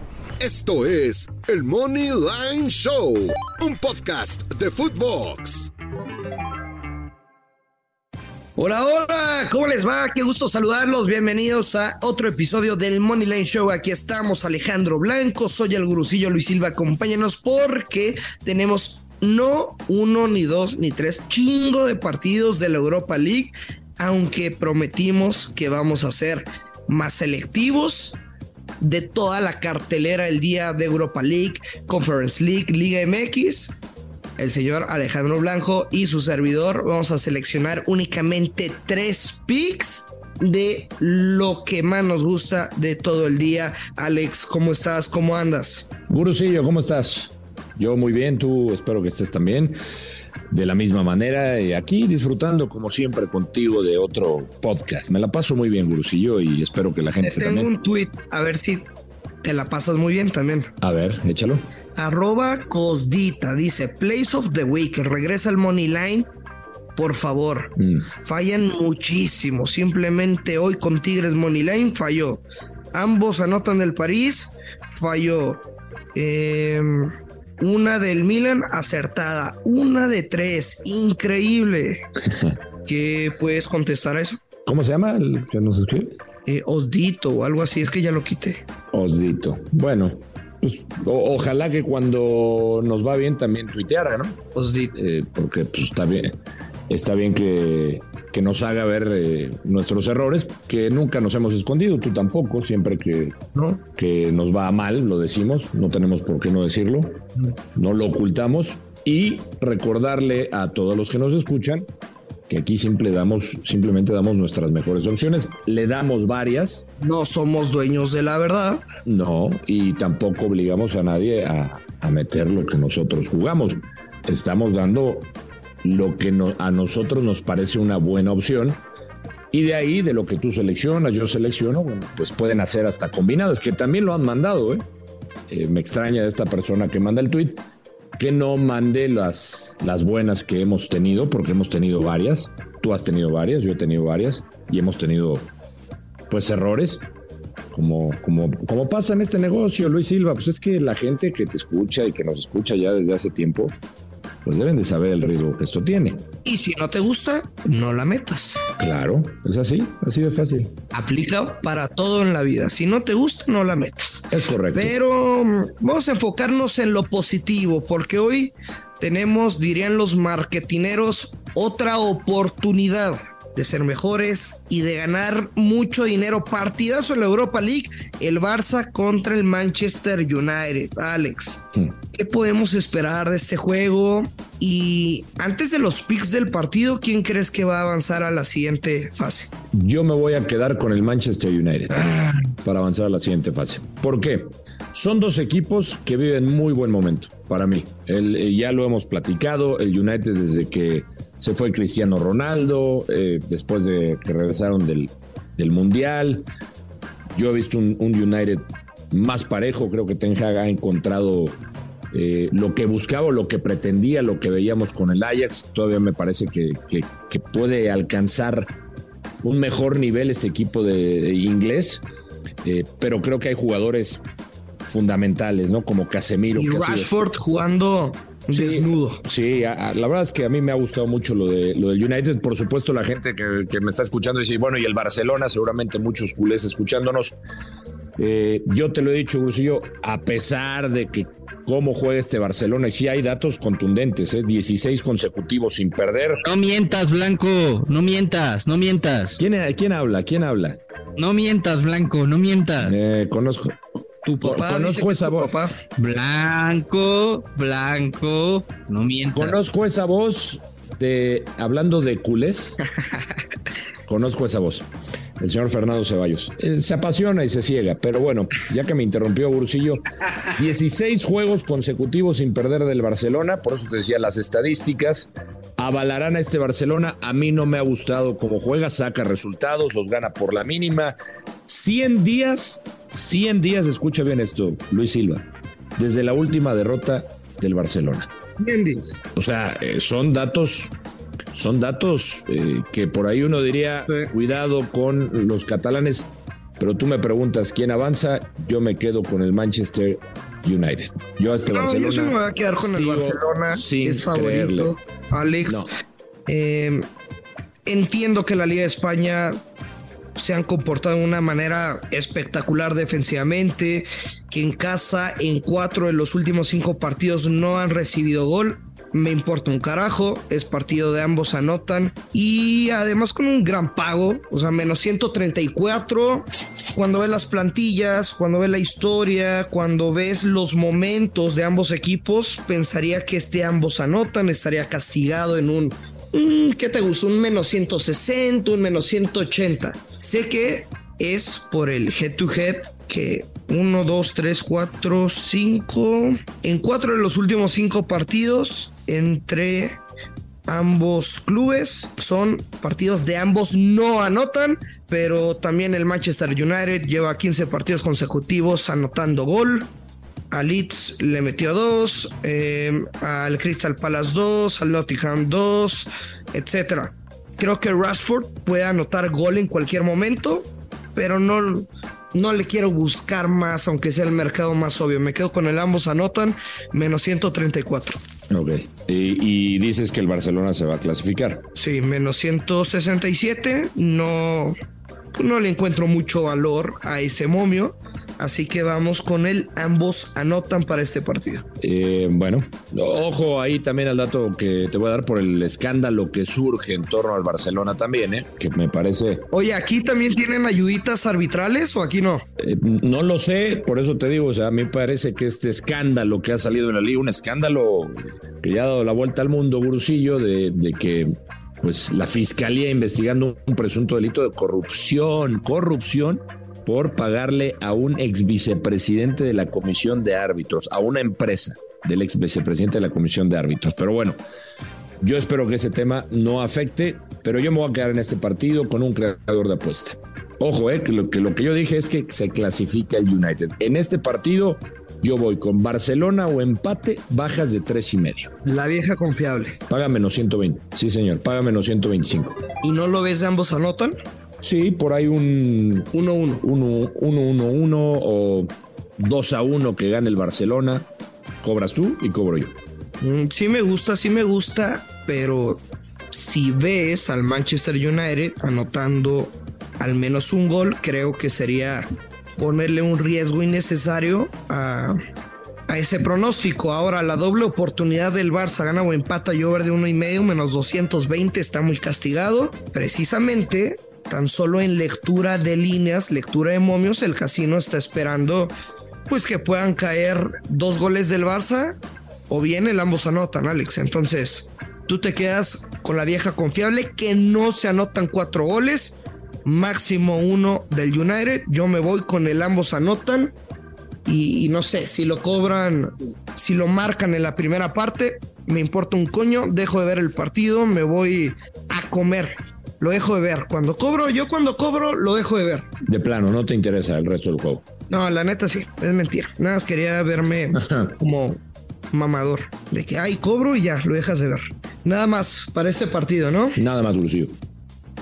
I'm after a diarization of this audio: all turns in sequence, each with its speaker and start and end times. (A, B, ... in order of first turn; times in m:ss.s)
0:00.4-0:05.7 A
0:08.6-0:28.2 B
0:28.8-0:33.8 B
0:34.4-0:45.9 B
0:46.1-0:49.8 C
0:50.5-0:57.7 C
0:57.2-0:58.9 B
0:59.4-1:00.7 B
1:00.8-1:01.6 C
1:02.0-1:06.3 B
1:07.0-1:12.4 B
1:07.8-1:08.1 C
1:12.9-1:15.6 B
1:16.2-1:22.0 B
1:22.8-1:24.4 B
1:24.7-1:26.2 C
1:26.5-1:28.6 B
1:28.9-1:34.4 C
1:34.6-1:35.0 B
1:34.9-1:36.3 C
1:36.9-1:43.4 C
1:43.6-1:43.8 B
1:44.0-1:47.2 C
1:47.8-1:51.9 C
1:52.5-1:56.8 C
1:57.0-1:58.8 B
1:59.0-2:05.3 C
2:05.8-2:08.8 C
2:09.5-2:14.8 C
2:15.5-2:17.6 C
2:18.2-2:25.5 C
2:26.3-2:27.0 C
2:27.7-2:33.8 C
2:34.4-2:36.2 C
2:36.4-2:38.7 B
2:38.8-2:40.7 C
2:40.9-3:09.5 B
2:44.3-2:45.0 C
3:09.7-3:26.5 C
3:27.3-3:31.6 C
3:32.1-3:38.7 C
3:39.4-3:42.0 C
3:42.6-3:44.2 C
3:44.8-3:47.2 C
3:46.6-3:49.2 B
3:48.5-3:57.4 C
3:58.2-4:06.4 C
4:06.4-4:09.4 D
4:09.4-4:10.8 C
4:11.2-4:13.0 D
4:12.8-4:13.8 C
4:14.2-4:15.8 B
4:14.4-4:15.5 C
4:16.0-4:19.6 D
4:19.4-4:22.8 C
4:24.1-4:24.9 C
4:25.4-4:41.2 C
4:41.7-4:45.4 C
4:46.0-4:48.3 C
4:48.6-4:49.2 B
4:49.4-4:50.9 C
4:51.5-4:56.3 C
4:56.8-5:04.9 C
5:01.7-5:05.8 B
5:06.5-5:07.0 B
5:07.9-5:09.6 B
5:10.4-5:50.0 B
5:50.7-5:59.9 B
6:00.5-6:18.2 B
6:18.5-6:21.6 C
6:21.8-6:24.8 B
6:25.4-6:31.6 B
6:31.8-6:39.4 C
6:39.5-6:42.4 B
6:42.6-7:04.4 C
7:05.2-7:18.5 C
7:18.6-7:19.8 B
7:19.9-7:22.6 C
7:22.8-7:24.2 B
7:24.6-7:26.1 C
7:26.1-7:26.6 B
7:26.6-7:31.0 C
7:31.6-7:32.7 C
7:33.2-7:45.2 B
7:45.9-7:58.7 B
7:59.3-8:02.0 B
8:02.5-8:13.5 B
8:14.3-8:25.9 B
8:26.1-8:27.8 C
8:28.1-8:31.6 B
8:30.7-8:31.1 C
8:32.1-8:36.8 B
8:36.8-8:37.5 C